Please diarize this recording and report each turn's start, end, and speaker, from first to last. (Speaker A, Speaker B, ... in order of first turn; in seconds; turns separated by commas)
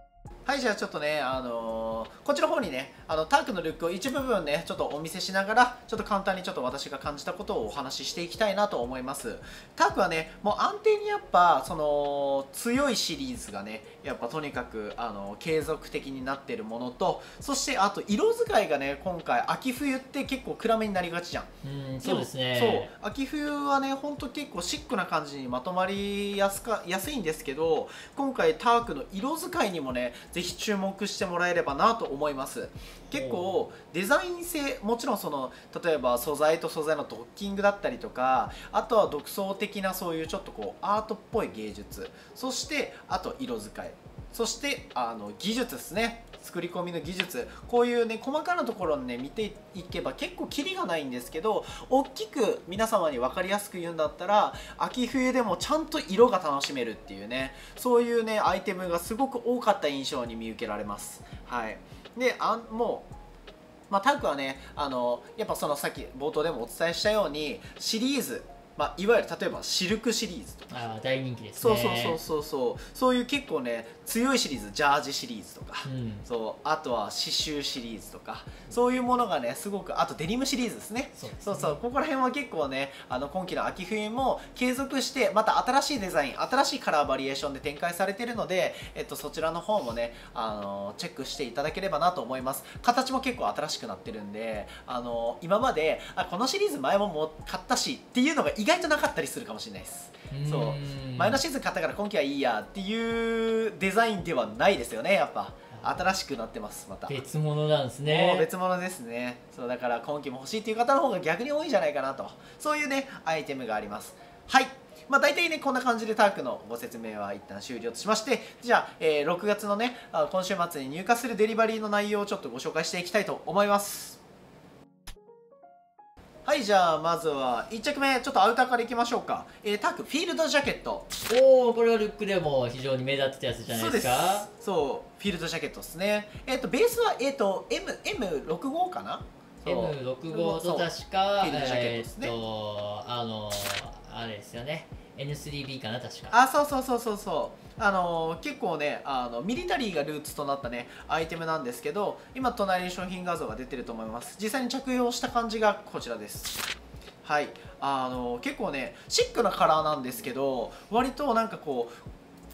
Speaker A: 0.5-21.5, Speaker B: 21.6-22.9, Speaker A: 22.0-63.1, Speaker B: 33.1-33.6, Speaker A: 63.9-70.9, Speaker B: 70.7-72.2, Speaker A: 71.6-107.2, Speaker B: 75.8-76.2, Speaker B: 81.1-81.8, Speaker B: 100.3-101.4, Speaker B: 105.7-106.0, Speaker B: 107.1-108.5, Speaker A: 108.0-124.2, Speaker A: 126.4-131.1, Speaker B: 131.3-134.5, Speaker A: 133.7-140.9, Speaker B: 139.6-146.3, Speaker A: 141.4-142.3, Speaker A: 146.3-156.6, Speaker A: 157.2-161.9